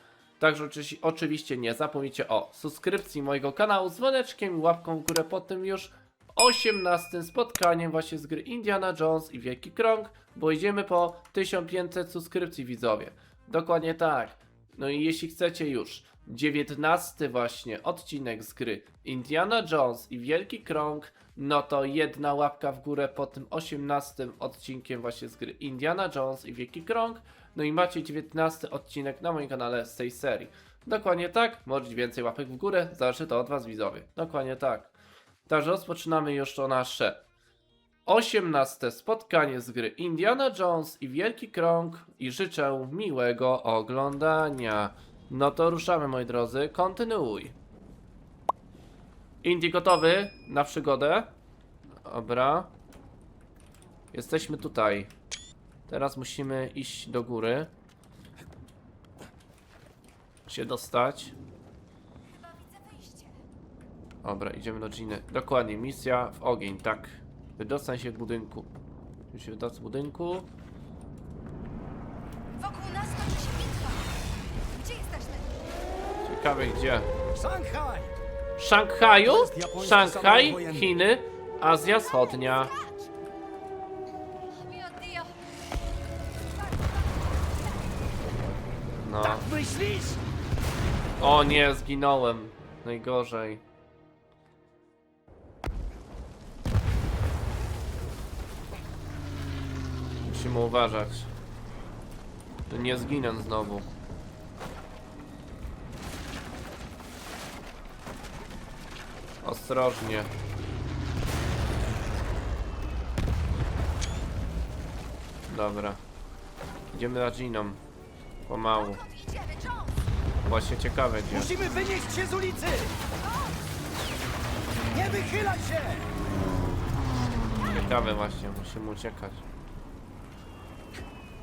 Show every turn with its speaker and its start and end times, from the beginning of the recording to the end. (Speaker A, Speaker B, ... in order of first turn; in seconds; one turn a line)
Speaker A: 0.4-34.9
Speaker A: 35.5-37.2
Speaker A: 38.0-47.5
Speaker A: 49.4-51.3
Speaker A: 52.0-52.7
Speaker A: 54.1-55.1
Speaker A: 55.9-57.7
Speaker A: 60.5-61.3
Speaker B: 62.3-63.4
Speaker A: 64.2-68.7
Speaker A: 69.3-70.5
Speaker B: 72.5-75.6
Speaker A: 76.2-77.1
Speaker C: 77.3-78.2
Speaker A: 78.6-82.7
Speaker C: 79.1-80.9
Speaker B: 81.8-83.1
Speaker B: 84.5-85.4
Speaker B: 86.4-88.2
Speaker A: 89.0-89.5
Speaker C: 89.2-90.2
Speaker A: 91.2-93.6
Speaker A: 100.2-101.3
Speaker A: 102.7-103.9
Speaker A: 109.4-110.3
Speaker A: 115.5-116.0
Speaker A: 116.9-117.8
Speaker A: 118.5-119.0
Speaker B: 118.7-120.1
Speaker A: 120.4-121.5
Speaker C: 121.3-123.0
Speaker B: 123.0-123.6
Speaker C: 124.9-126.1
Speaker A: 127.6-129.4